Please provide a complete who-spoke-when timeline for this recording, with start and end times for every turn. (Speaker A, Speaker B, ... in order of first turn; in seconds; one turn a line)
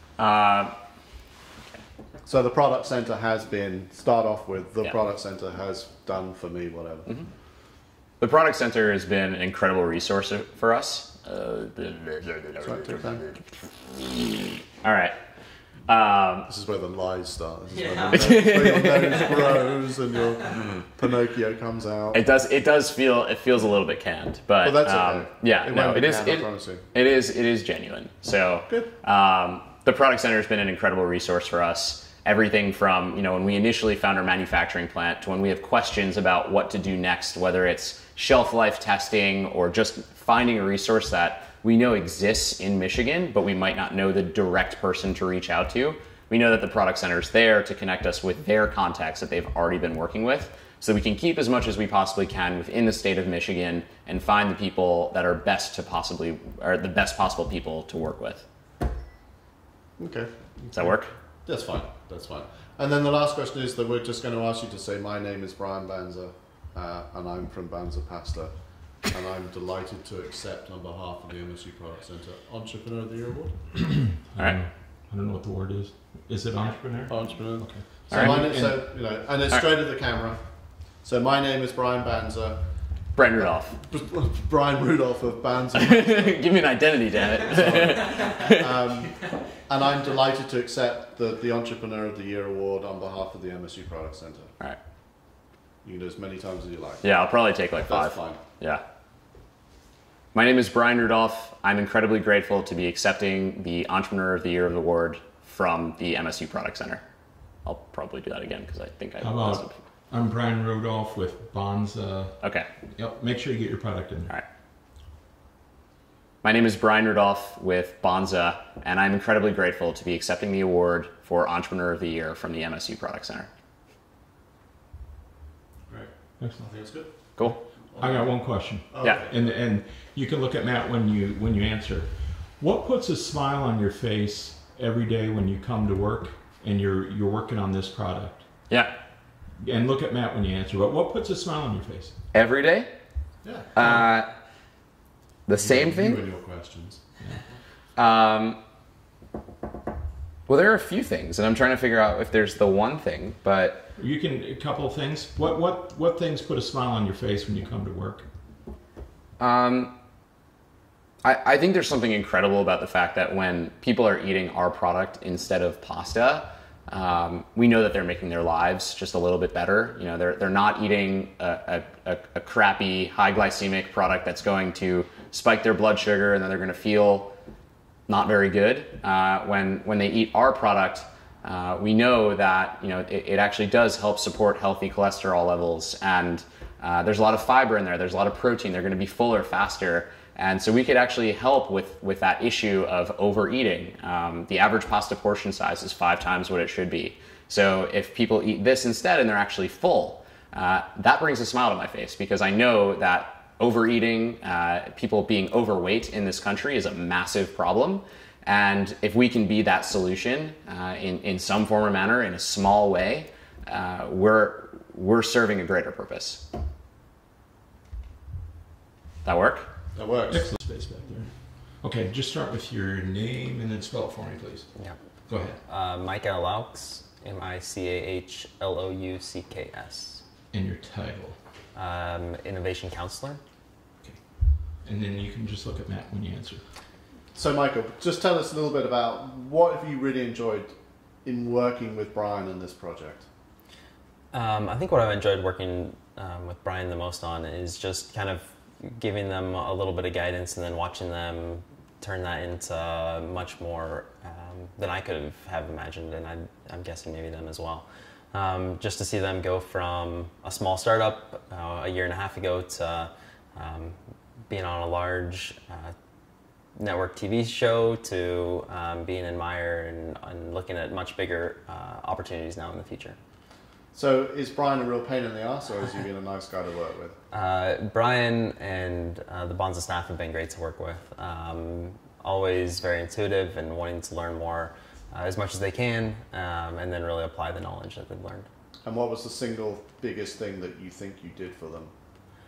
Speaker A: 0.2-0.7
Speaker B: 2.2-7.1
Speaker A: 8.2-13.4
Speaker B: 12.6-13.2
Speaker A: 13.9-15.1
Speaker A: 15.9-16.5
Speaker B: 16.5-22.2
Speaker C: 17.7-19.3
Speaker A: 18.1-18.9
Speaker A: 22.1-58.5
Speaker B: 24.6-26.8
Speaker B: 60.0-73.7
Speaker A: 60.7-61.1
Speaker D: 74.1-78.5
Speaker B: 77.1-80.4
Speaker A: 78.1-79.7
Speaker B: 81.0-82.6
Speaker A: 83.1-83.8
Speaker B: 83.4-86.5
Speaker A: 85.7-88.8
Speaker B: 87.5-94.5
Speaker B: 95.8-97.1
Speaker A: 97.0-98.8
Speaker B: 97.8-98.4
Speaker A: 100.3-107.0
Speaker A: 107.6-109.8
Speaker D: 109.2-114.3
Speaker A: 112.4-112.7
Speaker A: 116.4-123.5
Speaker B: 125.9-127.1
Speaker D: 126.4-126.6
Speaker D: 127.4-138.5
Speaker B: 127.9-128.2
Speaker B: 128.9-129.3
Speaker D: 139.6-142.1
Speaker A: 142.3-142.9
Speaker B: 143.4-143.7
Speaker A: 143.7-144.3
Speaker A: 145.5-146.2
Speaker B: 145.6-147.0
Speaker A: 148.0-148.6
Speaker A: 150.5-153.8
Speaker D: 153.9-158.3
Speaker A: 159.4-159.9
Speaker A: 161.2-177.3
Speaker A: 178.1-216.4
Speaker A: 219.2-219.7
Speaker B: 219.9-220.5
Speaker D: 220.3-224.7
Speaker D: 225.3-225.6
Speaker C: 225.6-230.2
Speaker D: 230.5-231.4
Speaker C: 231.7-233.4
Speaker D: 234.8-236.6
Speaker B: 237.3-243.3
Speaker C: 244.3-263.9
Speaker C: 264.5-265.9
Speaker C: 266.8-273.2
Speaker B: 273.9-277.1
Speaker C: 277.3-288.5
Speaker B: 288.8-291.9